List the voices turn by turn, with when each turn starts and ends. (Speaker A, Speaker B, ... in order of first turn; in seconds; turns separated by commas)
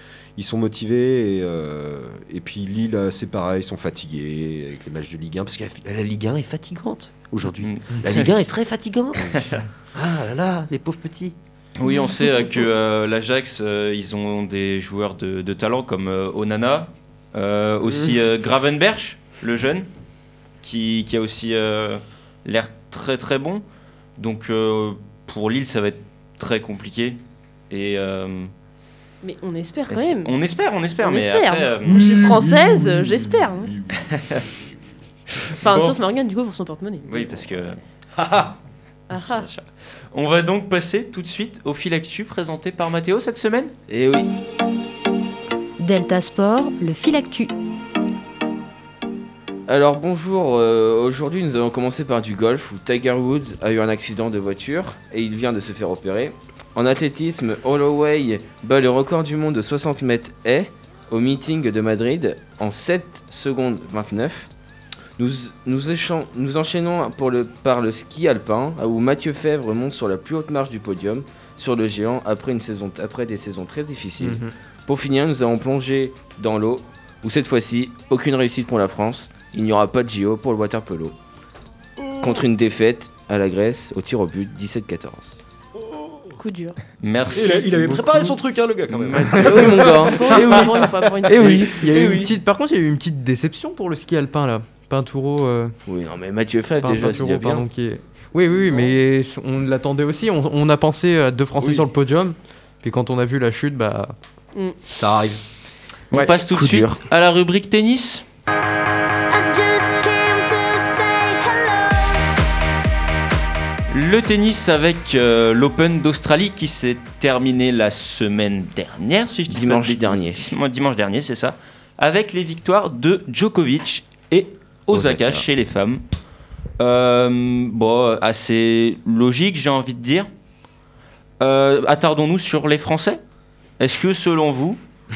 Speaker A: 0.3-11.3, Speaker B: 7.6-8.3, Speaker B: 9.3-9.6, Speaker B: 11.8-19.9, Speaker B: 20.6-23.6, Speaker B: 24.2-27.2, Speaker B: 27.7-28.5, Speaker C: 29.2-30.3, Speaker B: 29.9-32.1, Speaker C: 31.0-33.7, Speaker A: 32.3-32.9, Speaker B: 34.0-34.4, Speaker C: 35.6-37.3, Speaker B: 35.6-36.0, Speaker B: 37.1-37.8, Speaker C: 39.1-39.5, Speaker B: 39.2-43.7, Speaker D: 43.9-44.3, Speaker E: 45.8-47.5, Speaker D: 49.7-64.5, Speaker D: 65.2-81.2, Speaker F: 74.2-74.5, Speaker A: 82.1-82.4, Speaker D: 82.2-85.4, Speaker C: 86.4-86.8, Speaker B: 87.0-88.3, Speaker A: 87.3-90.0, Speaker B: 88.9-90.1, Speaker D: 89.3-92.3, Speaker C: 89.9-91.7, Speaker F: 91.7-95.7, Speaker D: 95.8-97.7, Speaker F: 96.8-104.1, Speaker A: 104.9-105.4, Speaker B: 106.1-108.2, Speaker D: 106.1-107.0, Speaker E: 109.3-112.5, Speaker B: 113.9-126.0, Speaker D: 119.5-120.6, Speaker D: 124.9-125.5, Speaker B: 126.8-130.3, Speaker B: 131.4-133.2, Speaker B: 133.8-134.8